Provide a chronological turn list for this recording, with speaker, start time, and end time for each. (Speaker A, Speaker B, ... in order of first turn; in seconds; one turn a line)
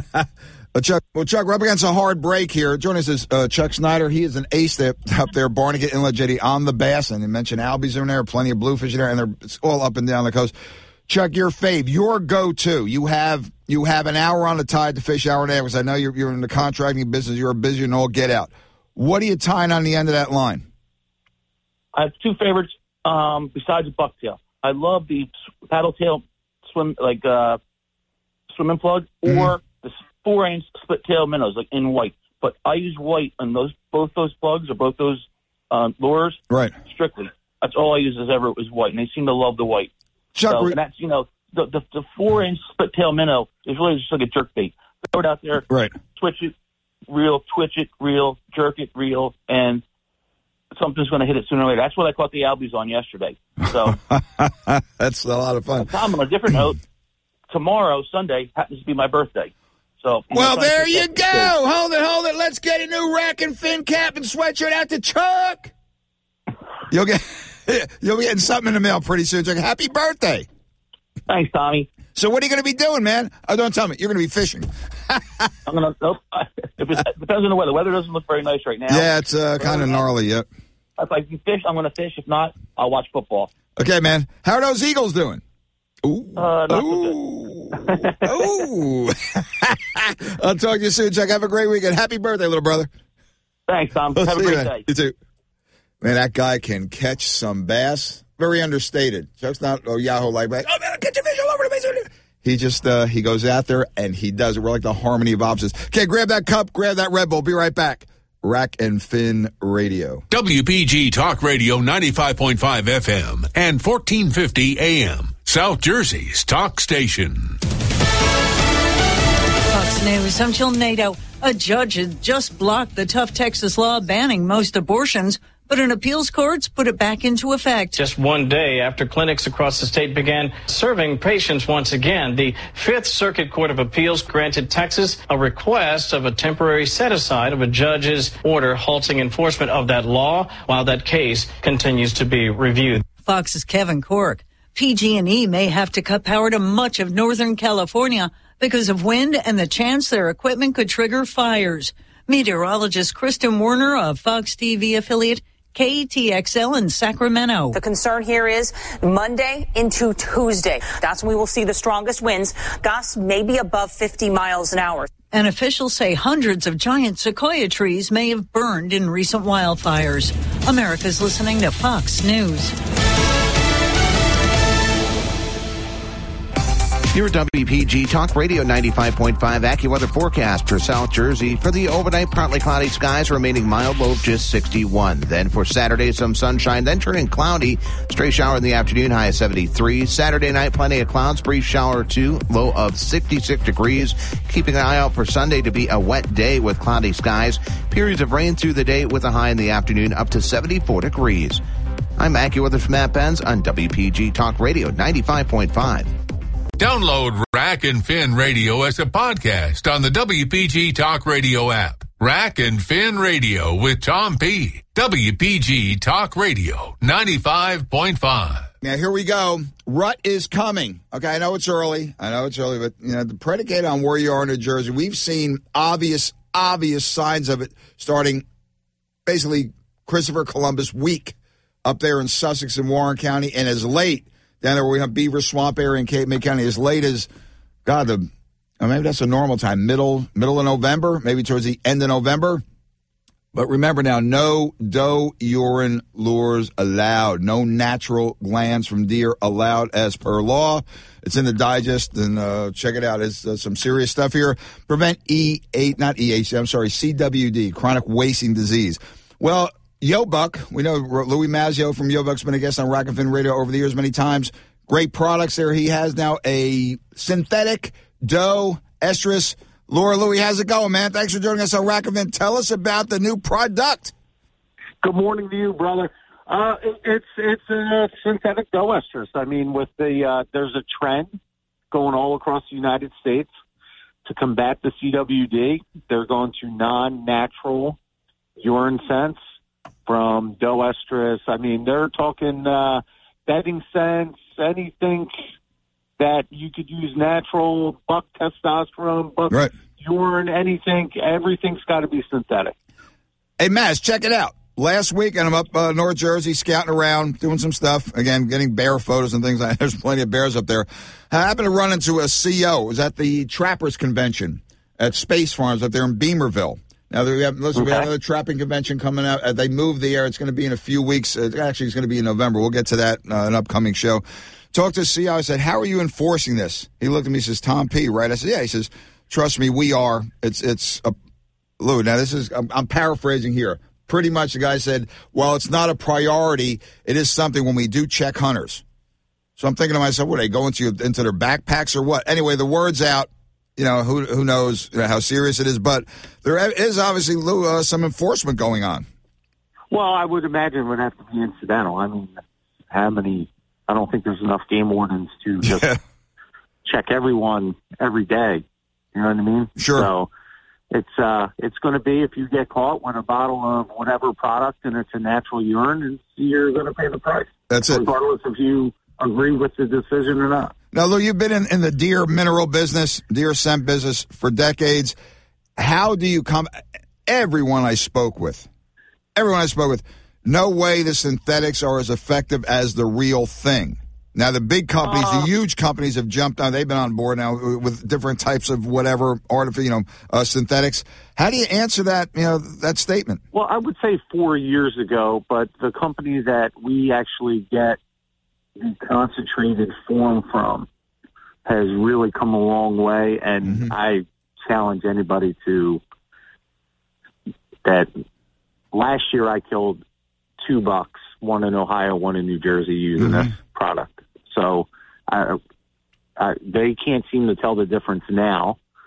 Speaker A: 0.1-10.5
Speaker A: 11.1-20.7
Speaker B: 21.9-27.6
Speaker B: 28.5-39.9
Speaker A: 29.3-29.5
Speaker A: 36.5-36.8
Speaker A: 40.4-40.8
Speaker B: 40.5-46.5
Speaker A: 45.7-45.9
Speaker B: 47.1-49.8
Speaker B: 50.7-54.0
Speaker A: 53.7-55.9
Speaker B: 55.8-56.8
Speaker B: 57.5-61.5
Speaker A: 60.3-65.7
Speaker A: 66.9-70.5
Speaker B: 71.3-71.9
Speaker A: 72.2-75.5
Speaker B: 75.7-79.1
Speaker A: 78.9-80.5
Speaker B: 79.6-80.0
Speaker B: 81.0-83.5
Speaker A: 83.8-85.4
Speaker A: 86.0-92.9
Speaker B: 86.4-87.2
Speaker B: 87.8-88.5
Speaker B: 93.7-94.8
Speaker A: 94.2-95.2
Speaker A: 96.0-110.2
Speaker C: 110.3-117.6
Speaker D: 119.7-128.0
Speaker E: 127.9-143.1
Speaker D: 143.2-157.8
Speaker F: 157.7-165.1
Speaker D: 165.3-172.7
Speaker G: 177.1-201.6
Speaker G: 202.2-206.1
Speaker C: 206.8-218.7
Speaker A: 218.8-228.4
Speaker A: 229.3-237.3
Speaker A: 237.8-238.3
Speaker A: 238.8-242.6
Speaker A: 243.5-274.1
Speaker H: 275.0-281.4
Speaker H: 281.9-283.5
Speaker H: 284.2-288.0
Speaker H: 288.6-289.4
Speaker H: 290.1-295.3
Speaker H: 296.2-302.8
Speaker A: 303.6-331.1
Speaker A: 331.8-338.8
Speaker A: 339.6-349.1
Speaker H: 349.9-352.4
Speaker H: 352.9-355.9
Speaker A: 355.6-356.0
Speaker H: 356.9-360.3
Speaker A: 359.8-360.1
Speaker H: 360.9-370.7
Speaker A: 367.7-368.1
Speaker A: 370.9-375.2
Speaker A: 375.8-378.7
Speaker A: 379.4-393.4
Speaker H: 385.1-385.5
Speaker H: 393.5-398.0
Speaker H: 398.8-400.9
Speaker H: 401.6-406.0
Speaker A: 403.6-403.9
Speaker H: 407.8-408.1
Speaker H: 408.9-410.0
Speaker H: 410.6-415.6
Speaker A: 413.2-413.5
Speaker H: 416.4-418.8